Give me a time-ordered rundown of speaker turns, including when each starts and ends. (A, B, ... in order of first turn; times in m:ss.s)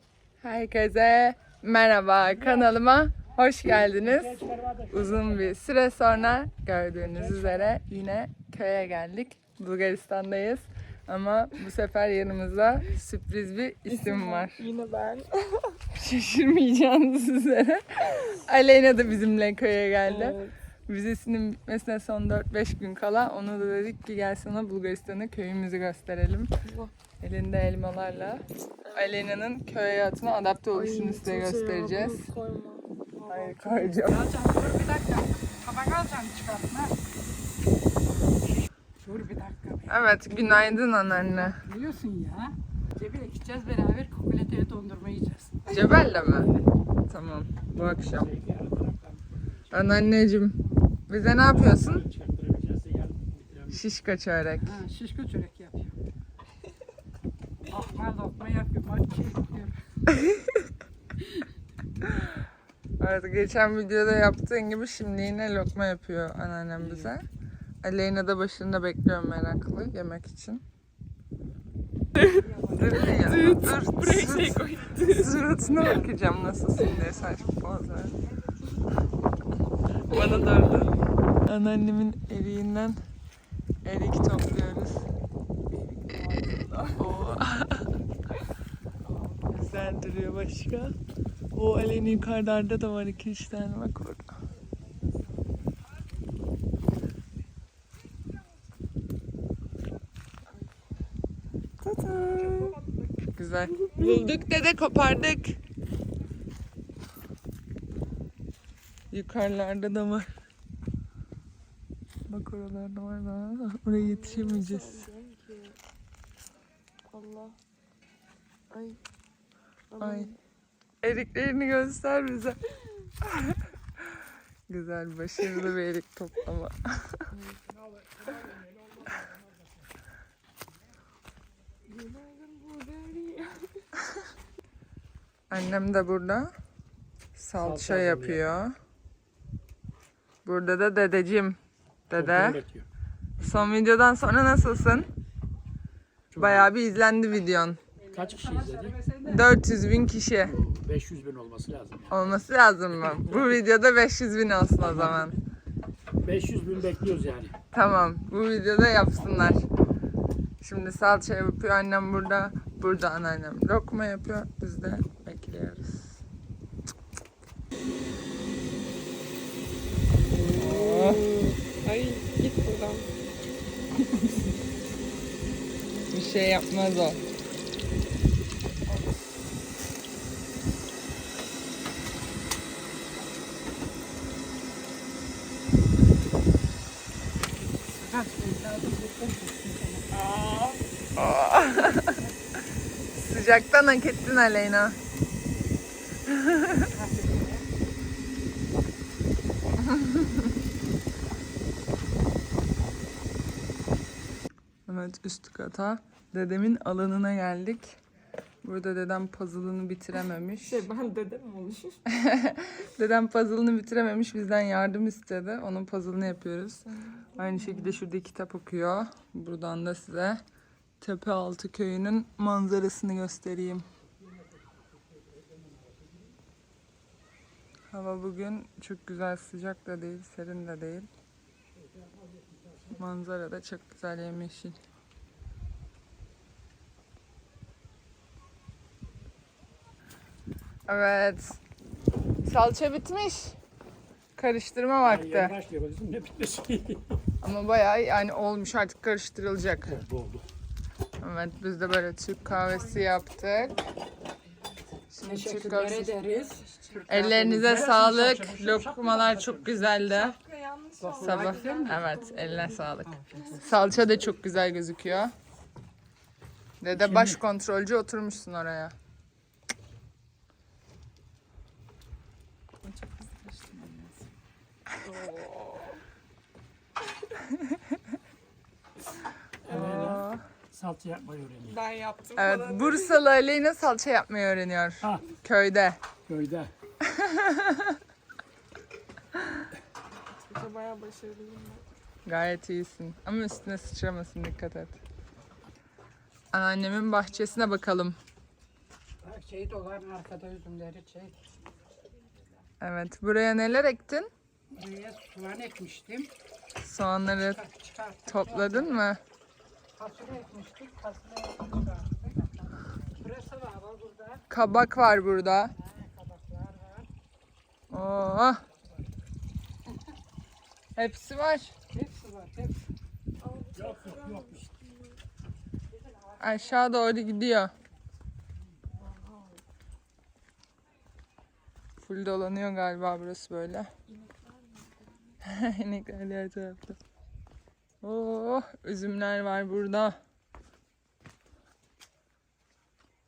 0:00.4-0:14.7 A
0:02.3-0:02.7 B
0:04.0-0:05.5 B
0:13.9-0:15.8 C
0:15.9-0:26.5 A
0:20.0-0:20.5 C
0:26.6-0:26.9 C
0:27.2-0:32.3 A
0:28.8-0:29.2 C
0:30.7-0:33.9 C
0:33.3-0:34.2 A
0:34.0-0:37.0 D
0:39.0-0:40.1 D
0:39.9-0:41.6 A
0:41.2-0:46.6 D
0:45.7-0:46.5 A
0:47.1-0:48.3 A
0:47.8-0:50.1 B
0:49.7-0:50.6 A
0:51.1-0:52.1 A
0:51.2-0:53.9 B
0:53.7-0:54.8 A
0:54.6-0:56.0 D
0:57.6-0:59.8 D
1:03.0-1:07.3 A
1:06.8-1:07.1 D
1:07.8-1:10.6 A
1:12.2-1:12.5 C
1:12.3-1:13.6 D
1:12.7-1:18.2 A
1:13.0-1:15.4 C
1:15.3-1:16.2 D
1:20.1-1:20.9 A
1:21.5-1:23.0 A
1:23.8-1:25.0 A
1:26.2-1:27.9 A
1:27.0-1:27.4 C
1:29.5-1:30.9 A
1:31.6-1:34.3 A
1:41.8-1:42.8 A
1:43.4-1:45.6 A
1:43.8-1:44.2 C
1:49.1-1:50.3 A
1:52.3-1:55.1 A
1:54.0-1:55.8 C
1:57.1-1:57.6 C
1:58.7-1:59.0 C
1:59.9-2:00.4 C
2:00.0-2:00.3 A
2:01.0-2:02.6 A
2:03.2-2:03.6 A
2:04.7-2:07.2 A
2:07.3-2:07.6 C
2:11.9-2:13.8 C
2:15.5-2:16.5 A
2:17.4-2:18.8 A
2:17.6-2:18.4 B
2:20.4-2:21.6 A
2:22.1-2:22.6 A
2:22.1-2:22.9 B
2:23.4-2:25.1 A
2:26.3-2:26.7 B
2:26.4-2:27.8 A
2:28.0-2:29.5 D
2:28.1-2:29.0 B
2:29.2-2:30.6 A
2:30.4-2:32.4 B
2:32.1-2:35.4 A
2:32.9-2:33.6 B
2:34.8-2:35.2 B
2:36.2-2:37.6 B
2:37.7-2:39.6 A
2:40.6-2:46.2 A
2:50.3-2:53.1 C
2:50.4-2:51.3 A
2:56.1-2:57.2 A
3:07.9-3:10.1 D
3:10.1-3:10.8 C
3:11.2-3:12.2 A
3:13.1-3:15.0 A
3:16.4-3:16.8 A
3:16.8-3:17.7 D
3:20.0-3:20.2 A
3:24.9-3:28.0 A
3:28.6-3:30.9 A
3:30.6-3:32.0 C
3:32.1-3:40.4 A
3:36.9-3:38.0 C
3:41.0-3:43.9 A
3:47.9-3:51.1 A
3:53.0-3:54.8 A
4:00.9-4:01.6 A
4:02.4-4:03.6 A
4:04.4-4:05.6 A
4:05.0-4:07.1 B
4:07.4-4:10.0 A
4:09.8-4:10.5 B
4:11.2-4:13.8 A
4:15.1-4:16.1 A
4:15.2-4:17.7 D
4:16.9-4:20.2 B
4:17.1-4:20.4 A
4:20.2-4:23.8 C
4:21.0-4:22.2 D
4:21.2-4:25.3 A
4:23.0-4:23.6 D
4:26.8-4:29.0 A
4:27.0-4:27.4 B
4:32.8-4:34.2 A
4:35.0-4:36.0 C
4:39.7-4:40.2 C
4:39.7-4:41.8 B
4:39.7-4:40.4 A
4:41.6-4:43.2 C
4:42.4-4:46.0 A
4:46.3-4:46.7 B
4:47.0-4:48.0 A
4:50.4-4:51.8 C
4:52.2-4:55.0 A
4:56.5-4:58.2 A
4:59.2-5:01.4 D
5:02.8-5:04.3 A
5:04.7-5:06.3 D
5:06.8-5:07.6 A
5:07.4-5:09.1 D
5:08.3-5:09.2 A
5:10.0-5:14.4 D
5:14.5-5:15.7 A
5:15.8-5:17.1 D
5:17.9-5:18.6 A
5:21.0-5:21.8 A
5:21.9-5:22.9 D
5:23.4-5:25.2 C
5:23.8-5:24.6 B
5:26.0-5:26.8 D
5:26.4-5:27.7 A
5:29.0-5:29.6 C
5:32.0-5:33.9 A
5:34.2-5:34.9 C
5:35.4-5:37.0 A
5:38.0-5:40.2 A